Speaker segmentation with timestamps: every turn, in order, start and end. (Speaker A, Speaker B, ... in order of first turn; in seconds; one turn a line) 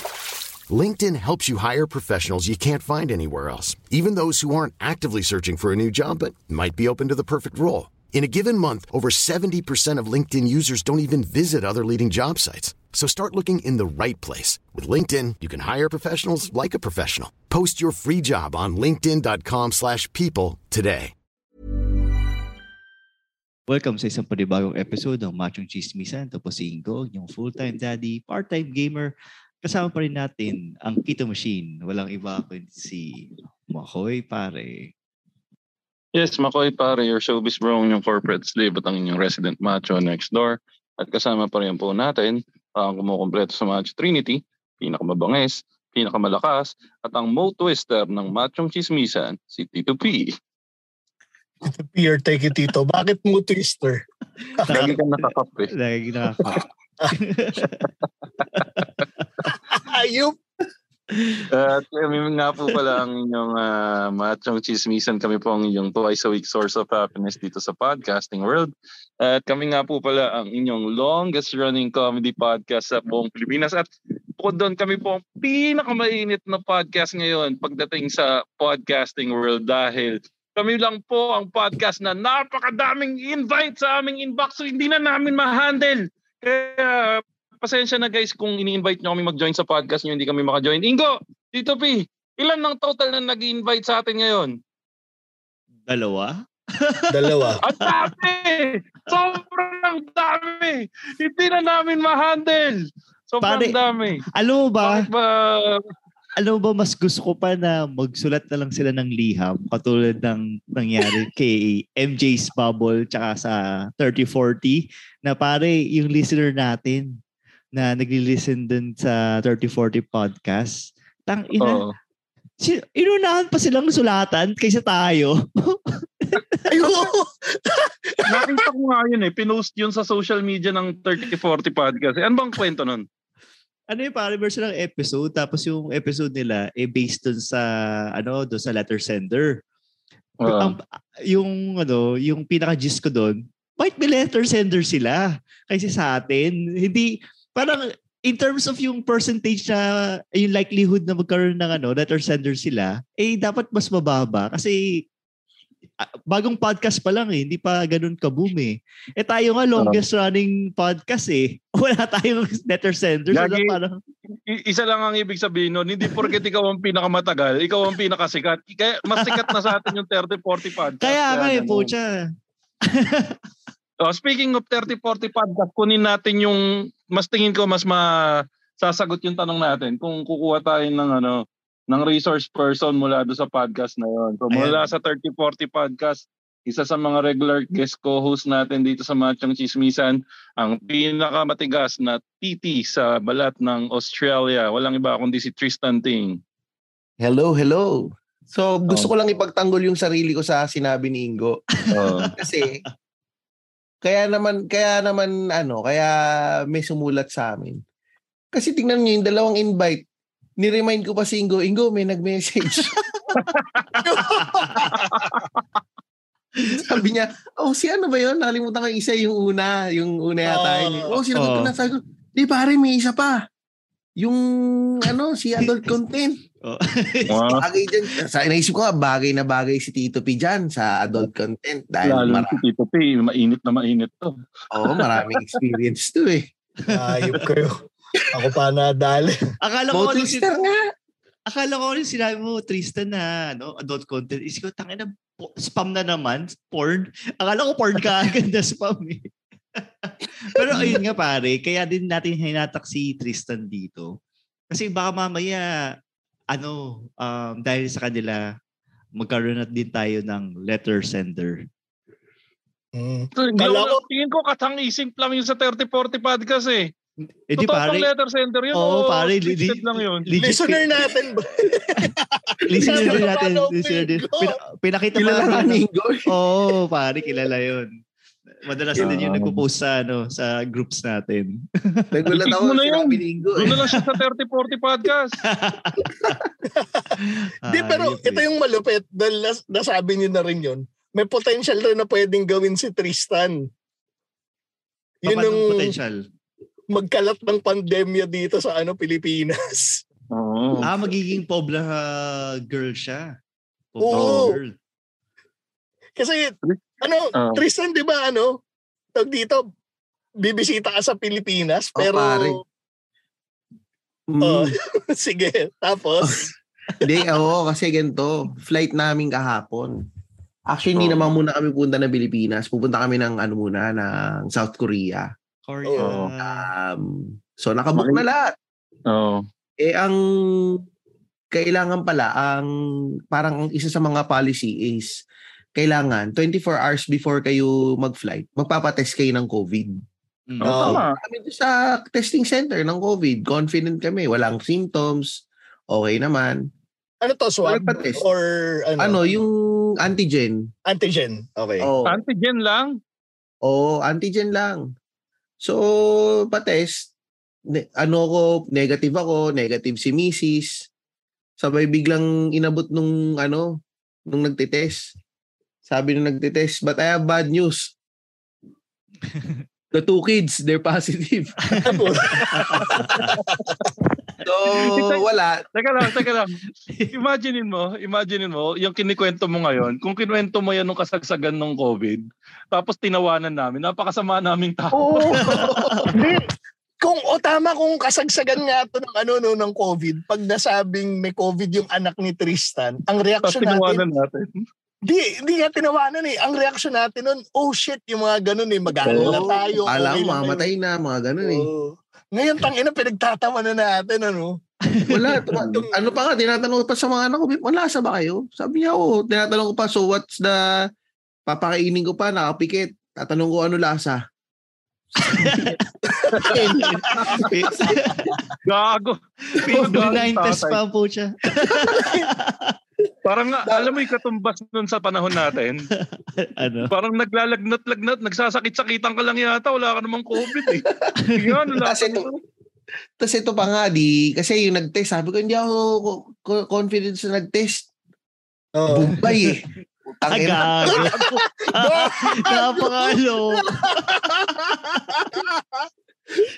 Speaker A: 0.7-21.1
Speaker B: 23.7-34.9
Speaker C: 36.2-50.3
Speaker D: 51.6-54.0
Speaker B: 54.4-55.0
Speaker D: 54.6-55.0
Speaker C: 54.7-55.7
Speaker B: 55.7-57.9
Speaker B: 58.5-59.0
Speaker D: 59.5-60.4
Speaker B: 61.1-61.5
Speaker C: 61.5-94.5
Speaker B: 95.9-98.0
Speaker D: 97.1-97.6
Speaker C: 97.6-104.2
Speaker B: 103.4-103.8
Speaker B: 104.3-105.0
Speaker C: 104.8-105.8
Speaker B: 106.4-117.2
Speaker B: 117.8-121.8
Speaker C: 121.6-122.0
Speaker B: 122.6-127.0
Speaker D: 126.7-128.7
Speaker C: 128.3-133.1
Speaker B: 133.9-139.6
Speaker C: 140.4-140.8
Speaker B: 140.4-154.8
Speaker B: 156.0-164.0
Speaker C: 163.3-163.8
Speaker C: 164.5-171.9
Speaker B: 166.1-166.3
Speaker B: 169.1-169.9
Speaker B: 171.0-172.1
Speaker B: 172.9-173.4
Speaker C: 174.0-178.1
Speaker C: 178.8-196.4
Speaker B: 184.5-184.9
Speaker E: 197.2-201.6
Speaker B: 201.8-202.3
Speaker C: 201.9-202.3
Speaker E: 202.4-202.8
Speaker E: 204.0-206.1
Speaker E: 206.7-207.8
Speaker E: 208.5-210.1
Speaker E: 210.6-213.0
Speaker C: 213.3-213.9
Speaker D: 214.0-215.2
Speaker C: 215.0-215.5
Speaker E: 216.7-223.4
Speaker D: 220.5-221.2
Speaker B: 221.3-221.7
Speaker E: 224.2-226.4
Speaker B: 226.6-227.6
Speaker C: 227.3-227.6
Speaker E: 227.6-232.6
Speaker C: 232.1-235.6
Speaker E: 234.7-236.5
Speaker B: 236.9-237.4
Speaker D: 236.9-237.8
Speaker D: 238.3-239.4
Speaker B: 239.6-240.5
Speaker E: 239.9-240.8
Speaker B: 241.5-254.1
Speaker B: 254.7-255.9
Speaker B: 256.5-258.4
Speaker B: 259.2-261.7
Speaker D: 262.9-264.0
Speaker C: 263.4-266.9
Speaker B: 267.5-268.1
Speaker C: 267.6-270.3
Speaker B: 268.7-270.9
Speaker D: 270.4-274.6
Speaker B: 272.7-277.9
Speaker E: 272.8-273.3
Speaker E: 275.2-276.3
Speaker B: 278.6-282.1
Speaker C: 279.0-279.6
Speaker E: 282.1-283.8
Speaker C: 282.3-285.3
Speaker B: 285.4-286.3
Speaker D: 286.7-287.1
Speaker B: 287.2-288.4
Speaker D: 287.7-293.7
Speaker D: 295.2-295.9
Speaker B: 295.3-296.2
Speaker D: 296.9-300.0
Speaker C: 300.3-300.9
Speaker B: 300.8-303.4
Speaker B: 303.9-304.8
Speaker D: 304.0-304.6
Speaker C: 304.1-304.4
Speaker D: 306.2-308.6
Speaker C: 307.4-307.6
Speaker D: 309.2-309.6
Speaker D: 310.4-312.6
Speaker E: 312.0-312.6
Speaker E: 314.3-314.8
Speaker D: 314.4-316.5
Speaker E: 316.2-320.0
Speaker E: 320.7-325.3
Speaker B: 325.7-326.7
Speaker D: 325.9-326.1
Speaker C: 326.0-326.3
Speaker E: 326.4-328.5
Speaker C: 328.0-328.2
Speaker C: 329.1-329.4
Speaker E: 329.8-330.8
Speaker E: 331.5-332.7
Speaker E: 333.3-335.2
Speaker E: 335.8-340.0
Speaker B: 340.5-341.0
Speaker C: 340.6-341.2
Speaker D: 340.6-341.0
Speaker E: 341.0-346.7
Speaker D: 347.2-349.2
Speaker E: 347.6-348.2
Speaker E: 349.0-350.7
Speaker D: 350.9-351.9
Speaker E: 351.8-352.2
Speaker C: 352.1-352.9
Speaker E: 353.6-354.8
Speaker E: 355.6-357.1
Speaker E: 357.7-360.9
Speaker E: 361.6-363.7
Speaker E: 364.3-365.1
Speaker E: 365.9-367.9
Speaker B: 369.3-369.6
Speaker E: 369.9-372.0
Speaker B: 371.7-371.9
Speaker D: 371.9-373.8
Speaker B: 372.5-373.4
Speaker E: 374.4-375.6
Speaker C: 374.8-376.6
Speaker C: 377.1-385.6
Speaker E: 385.0-386.2
Speaker B: 385.2-386.1
Speaker D: 386.1-386.4
Speaker D: 387.0-394.0
Speaker C: 393.4-394.5
Speaker D: 395.1-400.7
Speaker C: 399.0-399.4
Speaker E: 399.1-401.7
Speaker D: 401.4-404.6
Speaker B: 404.9-405.4
Speaker E: 405.1-410.6
Speaker D: 405.5-406.1
Speaker E: 411.5-414.2
Speaker B: 415.2-415.8
Speaker E: 415.2-415.8
Speaker D: 416.2-417.1
Speaker E: 416.4-418.3
Speaker C: 417.1-417.4
Speaker B: 417.3-418.2
Speaker C: 418.6-420.8
Speaker B: 419.5-422.7
Speaker E: 419.7-420.0
Speaker D: 422.0-422.2
Speaker C: 423.2-425.9
Speaker E: 423.7-423.9
Speaker B: 426.0-426.9
Speaker C: 426.9-432.4
Speaker E: 430.4-430.9
Speaker B: 431.2-431.5
Speaker E: 431.8-432.3
Speaker E: 433.2-437.9
Speaker D: 438.8-439.1
Speaker E: 438.9-441.1
Speaker B: 440.3-445.0
Speaker D: 440.9-445.9